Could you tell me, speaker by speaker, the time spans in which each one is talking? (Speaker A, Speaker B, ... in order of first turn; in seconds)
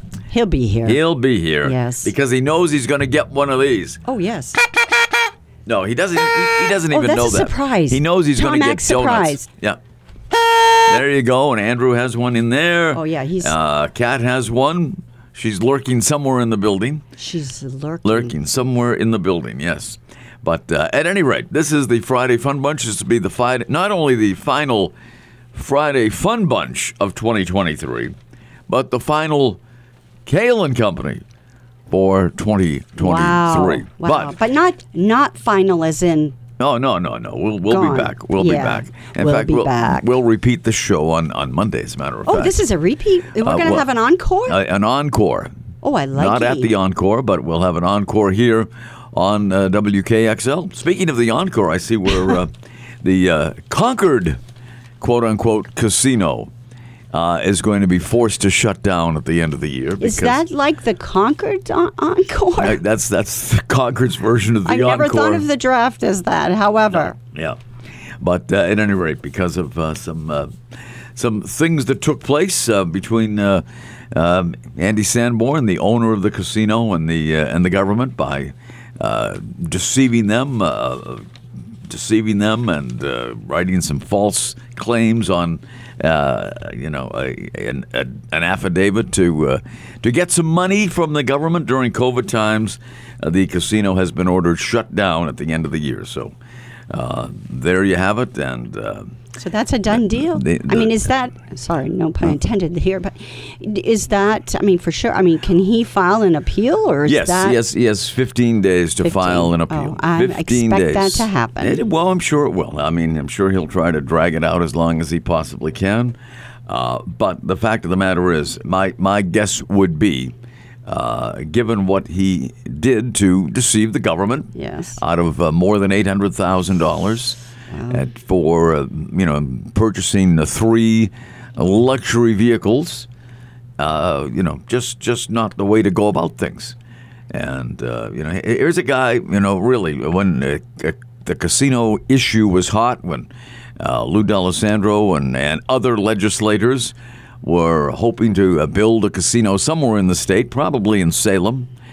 Speaker A: 0.3-1.0, 1.6-2.1, 4.0-4.6, 6.9-9.5, 12.9-13.5, 17.2-18.3, 33.0-36.4, 37.7-40.1, 42.3-44.6, 45.8-46.7, 60.0-62.8, 64.7-67.1, 99.4-107.6, 109.0-111.8, 124.5-125.0, 127.7-128.1
Speaker B: 0.8-4.0, 5.7-9.8, 10.9-17.0, 18.0-24.9, 25.5-28.1, 28.7-29.6, 30.2-31.2, 31.9-34.4, 36.6-42.6, 43.4-43.9, 44.5-45.5, 46.1-54.4, 55.0-56.5, 57.1-60.4, 62.6-65.4, 66.9-67.6, 68.2-70.5, 71.1-81.2, 81.9-96.3, 96.9-99.1, 99.9-101.0, 107.1-120.3, 120.8-127.4, 127.9-133.1, 133.8-136.7, 137.3-151.7